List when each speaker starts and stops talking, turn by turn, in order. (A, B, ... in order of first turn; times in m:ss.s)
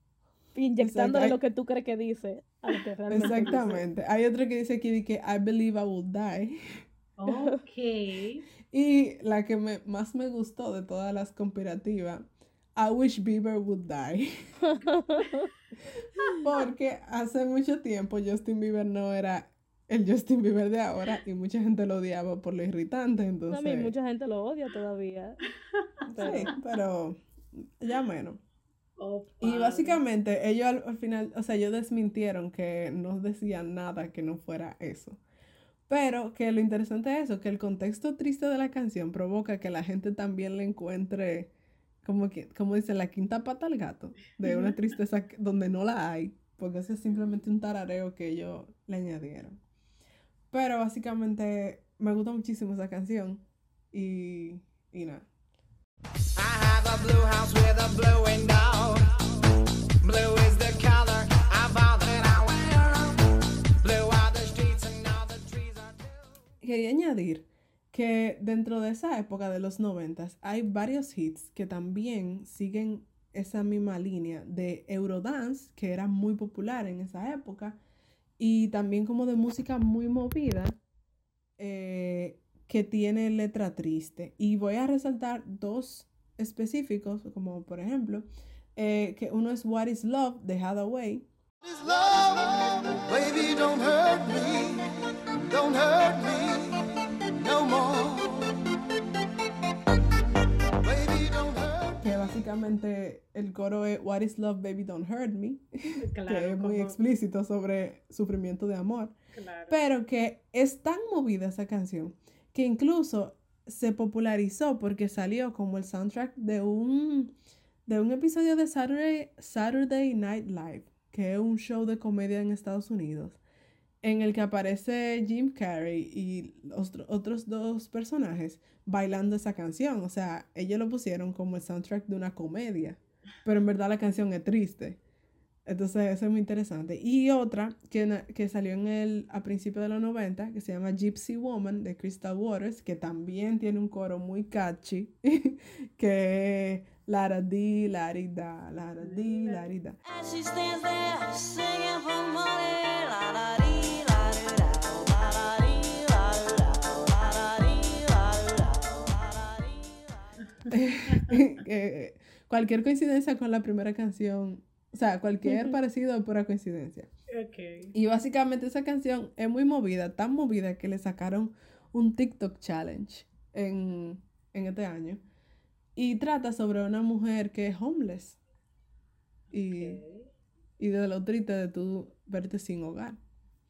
0:00.6-0:03.8 A
0:00.8-0:01.4 B
0:03.1-0:06.8 B
0:03.1-0:03.8 C
0:07.2-0:08.4 C
0:08.7-0:14.5 B
0:14.7-0:15.5 A
0:16.3-0:23.9 B
0:23.5-0:25.4 A
0:26.1-0:26.5 A
0:26.1-0:28.4 B
0:29.0-0:30.0 C
0:29.4-0:35.2 B
0:35.9-0:41.5 B
0:42.0-0:49.6 B
0:44.4-0:44.8 C
0:50.5-0:55.3 B
0:57.1-0:59.0 D
1:00.1-1:03.0 D
1:03.8-1:06.0 D
1:06.6-1:17.8 B
1:18.4-1:20.8 B
1:21.6-1:31.3 B
1:33.0-1:34.8 D
1:35.5-1:36.8 D
1:37.4-1:38.6 D
1:40.9-1:41.7 D
1:42.0-1:49.2 B
1:46.0-1:47.1 C
1:49.3-1:49.8 C
1:49.7-1:57.3 B
1:57.9-2:03.4 B
2:04.0-2:15.0 B
2:15.7-2:30.0 B
2:29.0-2:29.6 C
2:30.1-2:40.0 E
2:40.7-2:47.1 B
2:45.5-2:45.8 A
2:47.3-2:47.9 C
2:47.9-2:55.2 B
2:56.0-2:58.4 B
2:59.5-3:00.0 B
2:59.6-3:00.3 C
3:00.8-3:03.2 B